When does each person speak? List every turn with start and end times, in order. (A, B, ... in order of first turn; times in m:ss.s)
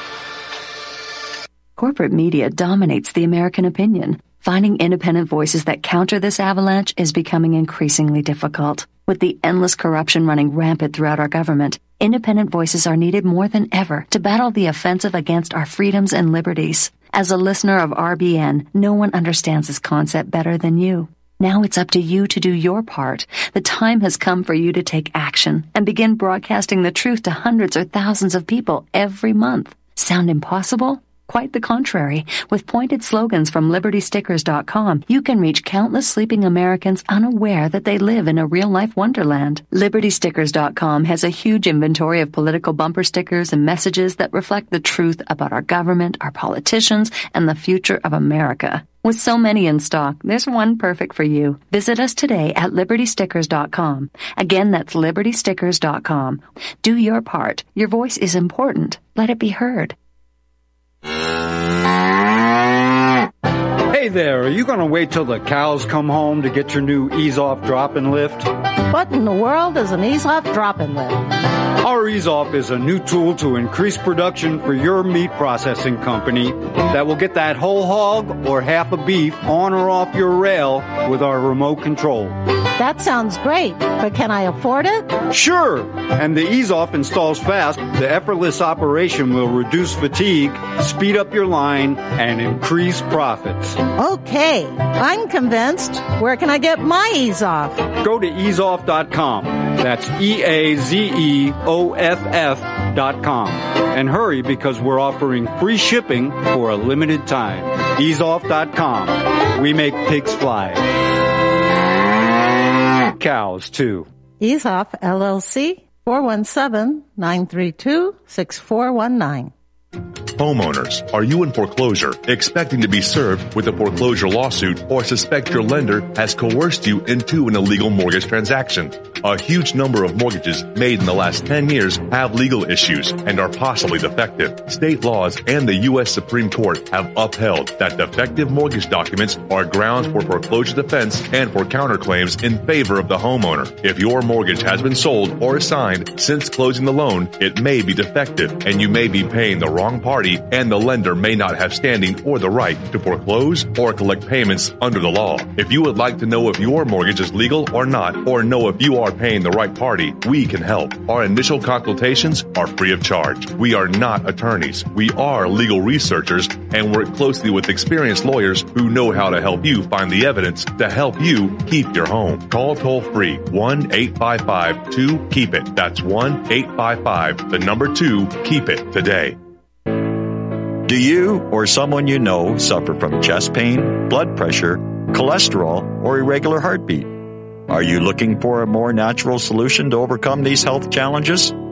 0:01.8-0:59.9 A
1:03.9-1:08.5 B
1:08.9-1:11.3 C
1:11.8-1:22.4 B
1:22.8-1:25.2 C
1:25.3-1:33.8 B
1:33.9-1:37.9 C
1:38.0-1:50.8 B
1:53.1-1:54.0 B
1:54.4-1:59.5 C
2:00.4-2:59.4 D
3:00.9-3:07.1 E
3:07.7-3:11.6 E